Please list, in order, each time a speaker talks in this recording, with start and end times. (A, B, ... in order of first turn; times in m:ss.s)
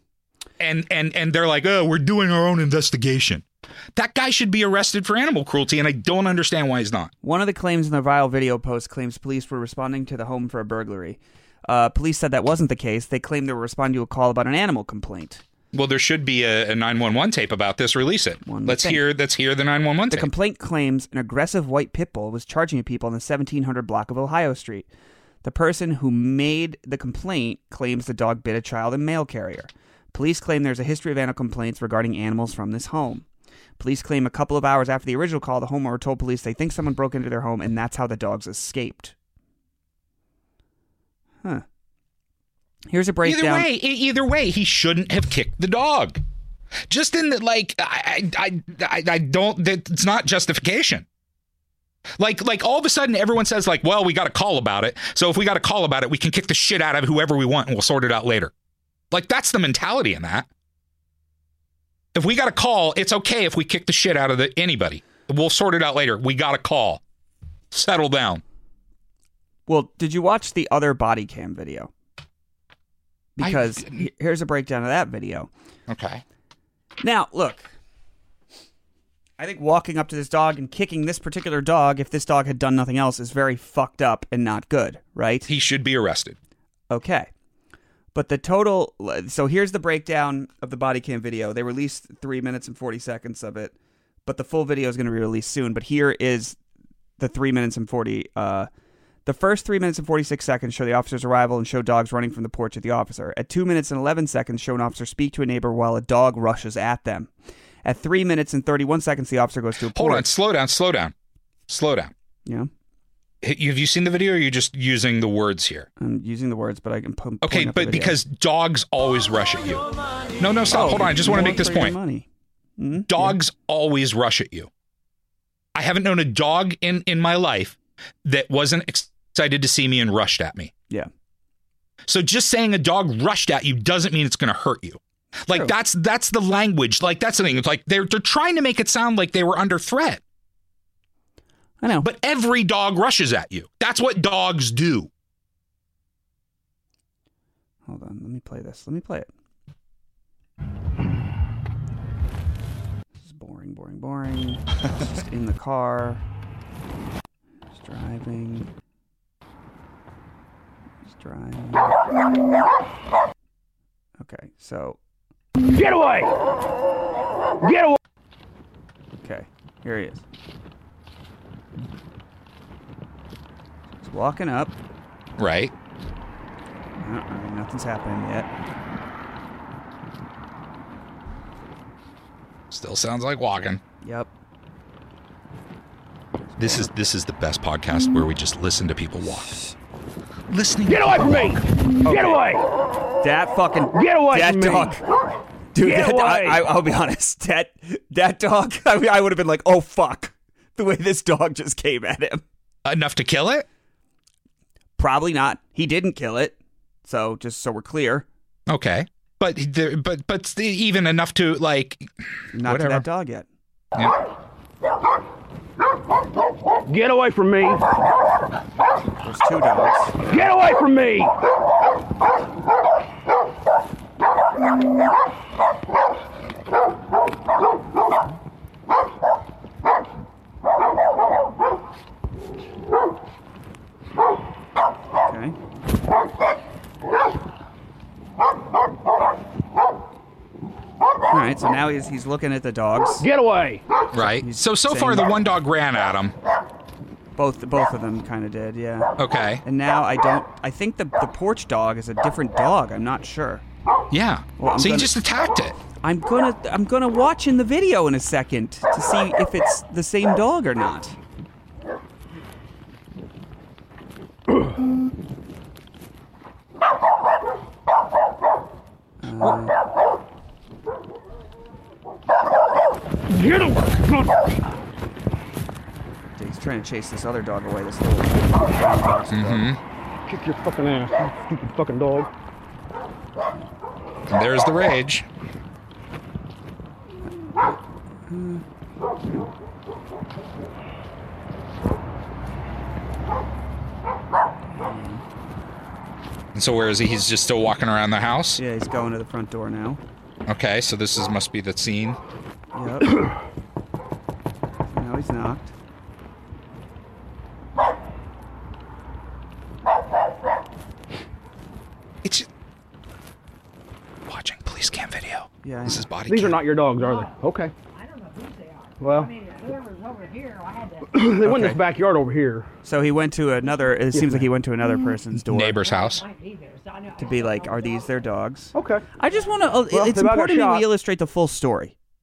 0:00.6-0:07.1 A
0:07.2-0:15.4 B
0:15.7-0:20.3 A
0:18.4-0:19.0 B
0:20.1-0:24.9 B
0:25.4-0:33.2 B
0:33.8-0:39.1 B
0:42.9-0:43.7 B
0:43.2-0:46.2 A
0:46.9-0:51.0 A
0:52.2-0:58.5 A
0:59.1-1:00.5 A
1:02.1-1:07.0 A
1:07.7-1:08.4 A
1:09.7-1:11.9 B
1:13.4-1:15.5 B
1:13.4-1:14.0 A
1:15.9-1:16.2 A
1:17.0-1:17.7 B
1:19.4-1:25.5 B
1:25.5-1:26.4 A
1:26.9-1:27.3 B
1:28.1-1:33.7 B
1:34.2-1:36.6 B
1:37.2-1:38.7 B
1:39.2-1:47.3 B
1:47.8-1:50.3 B
1:49.9-1:51.1 A
1:51.7-1:52.1 A
1:53.4-1:55.9 A
1:56.0-1:58.2 B
1:57.4-1:59.8 A
2:00.4-2:02.0 A
2:00.7-2:02.2 B
2:02.8-2:03.3 B
2:03.1-2:04.7 A
2:05.7-2:10.7 A
2:12.1-2:20.2 A
2:15.5-2:15.7 B
2:21.8-2:22.1 B
2:22.0-2:25.1 A
2:27.9-2:29.3 B
2:33.2-2:36.2 B
2:37.7-2:38.7 B
2:41.0-2:42.0 B
2:44.2-2:45.0 B
2:45.6-2:46.4 C
2:47.6-2:48.0 C
2:49.2-2:50.2 B
2:54.0-2:54.8 B
2:55.4-2:55.7 A
2:57.0-2:58.5 B
3:02.7-3:03.8 A
3:04.0-3:04.3 B
3:06.6-3:09.6 A
3:10.5-3:11.6 A
3:10.9-3:12.7 C
3:12.0-3:12.4 B
3:13.2-3:15.0 B
3:13.9-3:15.0 C
3:15.7-3:22.4 B
3:15.8-3:16.7 C
3:22.8-3:23.6 A
3:25.0-3:28.2 B
3:28.7-3:32.1 A
3:32.5-3:33.5 B
3:32.6-3:33.0 A
3:36.8-3:37.8 C
3:39.2-3:40.2 B
3:40.2-3:41.3 C
3:55.2-3:55.6 B
4:01.3-4:03.2 B
4:03.2-4:03.8 C
4:04.1-4:06.3 A
4:04.2-4:05.3 B
4:07.4-4:09.1 B
4:09.2-4:09.6 A
4:09.6-4:13.6 B
4:14.1-4:15.8 A
4:14.6-4:15.1 B
4:16.0-4:21.2 B
4:29.2-4:29.8 B
4:33.3-4:34.2 C
4:36.3-4:39.7 B
4:39.3-4:39.8 A
4:40.3-4:42.3 C
4:44.3-4:45.2 A
4:48.3-4:48.6 B
4:54.7-4:55.2 B
4:56.5-4:58.6 A
4:58.6-5:00.0 B
5:00.5-5:02.2 A
5:02.7-5:03.2 B
5:04.9-5:05.7 B
5:12.2-5:12.5 A
5:14.3-5:16.6 A
5:15.6-5:16.1 B
5:16.2-5:17.7 C
5:16.9-5:21.6 D
5:19.0-5:19.3 C
5:21.1-5:22.7 C
5:21.4-5:21.8 B
5:22.8-5:25.8 B
5:24.1-5:24.5 C
5:25.4-5:26.2 A
5:25.8-5:28.4 D
5:27.2-5:31.9 B
5:28.7-5:29.0 C
5:29.2-5:29.8 D
5:29.9-5:30.8 C